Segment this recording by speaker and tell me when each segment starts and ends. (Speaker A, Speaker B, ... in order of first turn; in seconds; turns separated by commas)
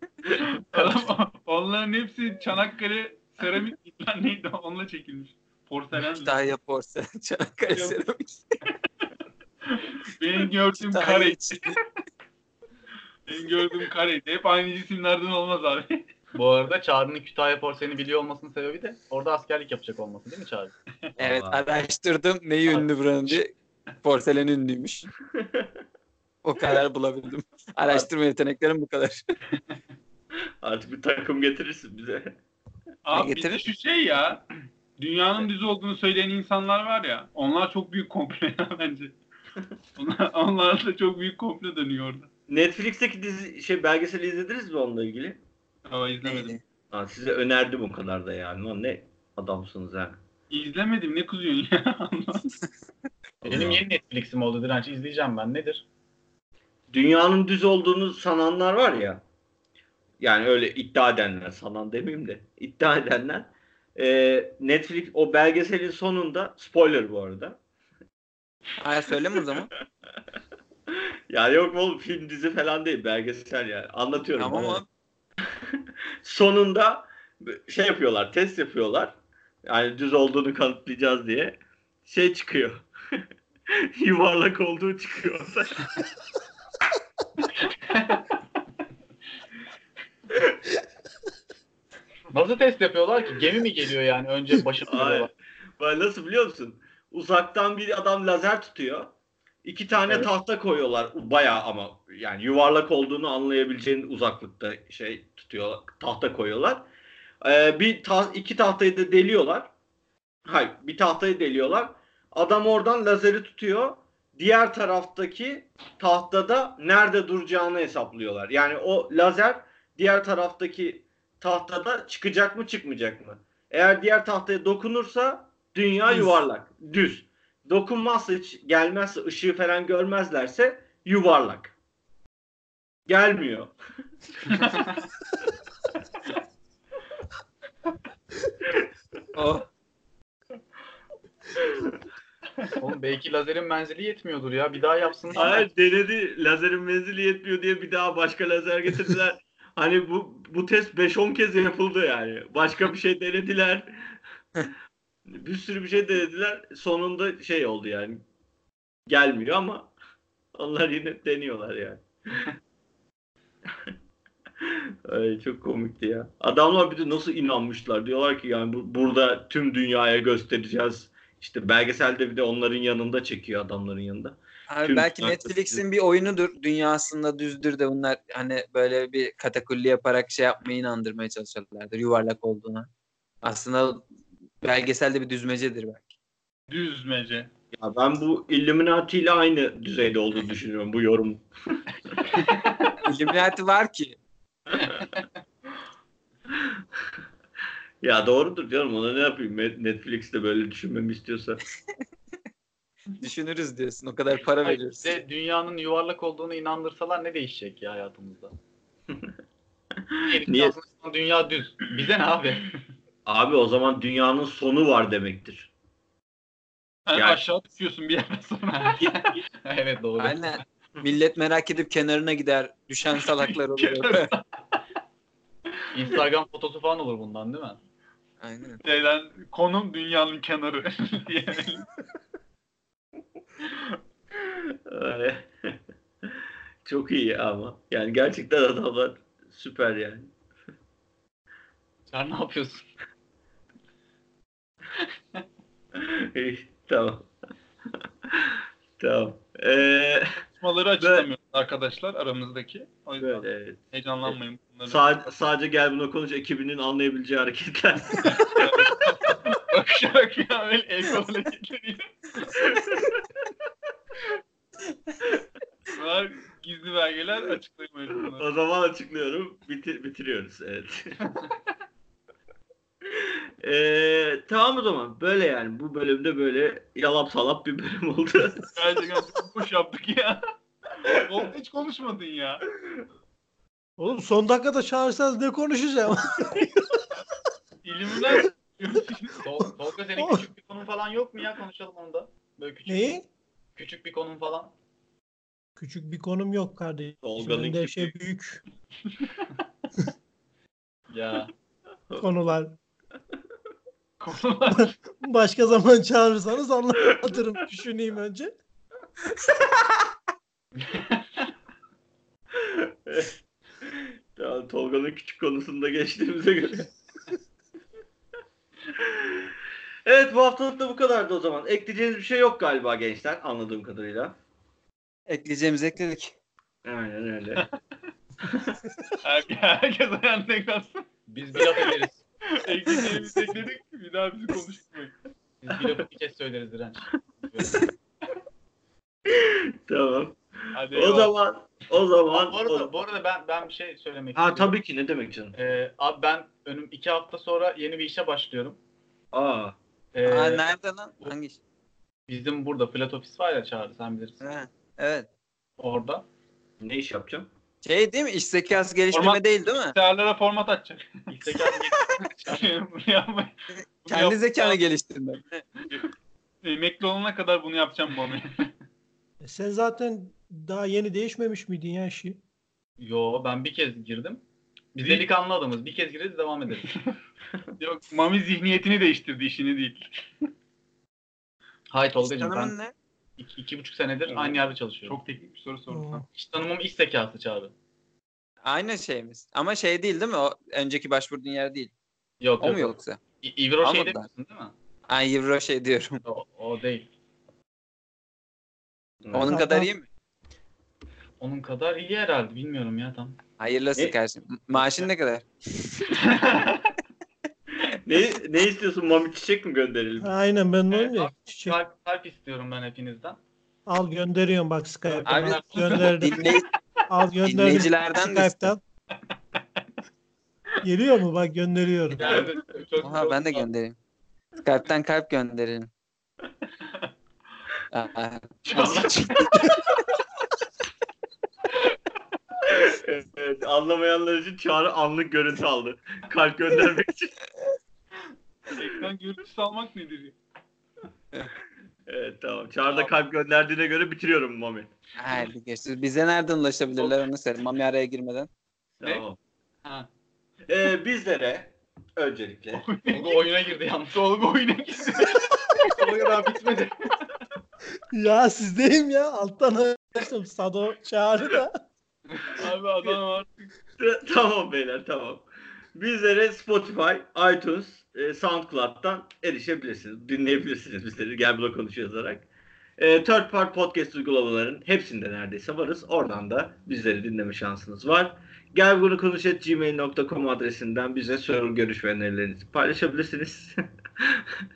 Speaker A: 0.4-6.4, Speaker B: 6.1-8.4, Speaker A: 9.6-11.8, Speaker B: 10.8-11.8, Speaker A: 13.3-16.0, Speaker C: 16.3-20.7, Speaker D: 21.2-21.6, Speaker B: 21.2-25.1, Speaker D: 25.4-25.7, Speaker B: 26.4-29.2, Speaker D: 30.6-32.4, Speaker A: 33.0-34.5, Speaker B: 33.1-33.6, Speaker A: 35.0-39.1, Speaker A: 40.0-42.3, Speaker D: 42.5-45.4, Speaker A: 45.9-46.6, Speaker B: 46.2-46.6, Speaker D: 46.9-50.2, Speaker A: 50.5-52.5, Speaker D: 53.4-53.8, Speaker C: 53.4-55.8, Speaker D: 56.9-59.2, Speaker D: 60.2-67.6, Speaker B: 68.8-69.7, Speaker D: 70.9-74.8, Speaker B: 74.4-74.9, Speaker D: 76.2-79.2, Speaker D: 79.7-82.9, Speaker D: 83.7-85.9, Speaker C: 92.3-95.3, Speaker D: 94.8-99.1, Speaker D: 99.6-106.9, Speaker D: 107.4-109.7, Speaker D: 110.5-131.7, Speaker D: 133.1-133.7, Speaker B: 139.3-139.7, Speaker C: 142.8-145.6, Speaker D: 145.3-153.9, Speaker D: 155.4-158.2, Speaker D: 159.1-159.9, Speaker D: 160.5-162.5, Speaker D: 164.6-175.8, Speaker B: 174.7-182.9, Speaker B: 183.4-184.0, Speaker B: 184.6-186.1, Speaker A: 186.7-187.5, Speaker D: 187.7-191.8, Speaker B: 193.0-194.2, Speaker D: 194.7-195.0, Speaker D: 198.0-201.6, Speaker B: 203.2-205.2, Speaker C: 204.6-208.5, Speaker D: 210.1-210.7, Speaker C: 210.2-212.7, Speaker D: 213.2-215.7, Speaker A: 217.1-219.3, Speaker D: 217.1-217.4, Speaker C: 218.7-220.6, Speaker B: 220.2-224.3, Speaker A: 223.2-224.8, Speaker C: 225.9-227.8, Speaker B: 228.4-228.8, Speaker A: 228.8-231.8, Speaker A: 233.6-233.9, Speaker D: 234.9-235.8, Speaker D: 236.8-240.3, Speaker C: 242.1-242.8, Speaker D: 245.9-247.3, Speaker D: 248.3-250.4, Speaker A: 250.5-255.1, Speaker D: 251.0-251.2, Speaker D: 253.2-254.3, Speaker D: 254.9-258.6, Speaker A: 258.2-262.7, Speaker A: 265.9-268.4, Speaker D: 268.3-271.1, Speaker D: 273.1-278.7, Speaker A: 278.7-280.4, Speaker A: 281.0-282.6, Speaker E: 284.0-286.7, Speaker A: 287.8-289.4, Speaker C: 289.4-293.1, Speaker E: 292.9-293.2, Speaker C: 293.7-294.7, Speaker E: 295.8-298.6, Speaker D: 297.2-298.1, Speaker C: 301.1-301.5, Speaker E: 302.2-302.8, Speaker A: 304.2-305.0, Speaker E: 304.8-308.5, Speaker D: 312.6-316.9, Speaker D: 318.9-319.5, Speaker D: 320.1-324.4, Speaker B: 325.3-326.3, Speaker D: 326.8-327.6, Speaker A: 329.2-331.0, Speaker C: 331.3-332.2, Speaker A: 331.6-331.9, Speaker A: 332.5-335.1, Speaker C: 335.6-337.9, Speaker D: 339.3-342.9, Speaker A: 340.7-341.3, Speaker C: 342.3-344.7, Speaker D: 344.3-345.5, Speaker C: 345.5-348.8, Speaker D: 349.3-349.8, Speaker C: 350.1-350.6, Speaker B: 350.2-351.6, Speaker C: 352.3-354.4, Speaker B: 354.4-355.3, Speaker C: 355.8-356.2, Speaker D: 356.8-357.5, Speaker B: 357.8-359.9, Speaker A: 359.1-359.4, Speaker A: 359.9-361.7, Speaker C: 361.3-362.7, Speaker A: 362.3-364.8, Speaker B: 364.1-365.6, Speaker A: 366.6-368.7, Speaker E: 369.4-372.4, Speaker C: 373.0-374.4, Speaker C: 374.9-376.9, Speaker A: 376.8-377.1, Speaker A: 377.8-380.5, Speaker C: 381.9-382.7, Speaker B: 382.2-382.9, Speaker C: 383.4-385.2, Speaker A: 384.3-386.2, Speaker E: 385.9-386.2, Speaker C: 386.3-387.7, Speaker B: 388.6-391.9, Speaker C: 392.4-394.7, Speaker B: 392.6-393.2, Speaker B: 393.8-394.2, Speaker B: 395.1-396.2, Speaker C: 396.2-397.1, Speaker D: 399.2-399.5, Speaker B: 399.3-400.0, Speaker E: 399.5-399.9, Speaker C: 401.4-403.4, Speaker B: 403.6-406.2, Speaker A: 406.3-406.8, Speaker D: 407.8-410.3, Speaker E: 410.2-411.8, Speaker C: 410.9-413.4, Speaker E: 413.9-416.5, Speaker C: 415.1-416.5, Speaker B: 415.2-416.6, Speaker E: 417.1-418.8, Speaker B: 417.4-418.7, Speaker E: 420.8-422.4, Speaker C: 422.1-423.7, Speaker B: 423.0-423.9, Speaker B: 424.6-425.9, Speaker B: 427.9-429.7, Speaker C: 428.7-429.1, Speaker A: 428.8-429.6, Speaker D: 432.6-437.3, Speaker A: 438.7-440.4, Speaker D: 442.1-444.9, Speaker B: 445.1-448.5, Speaker D: 449.0-449.4, Speaker D: 450.7-452.9, Speaker A: 452.7-453.4, Speaker C: 453.1-457.1, Speaker E: 458.1-461.8, Speaker C: 462.3-463.0, Speaker A: 462.5-463.7, Speaker D: 464.0-472.5, Speaker D: 473.0-484.5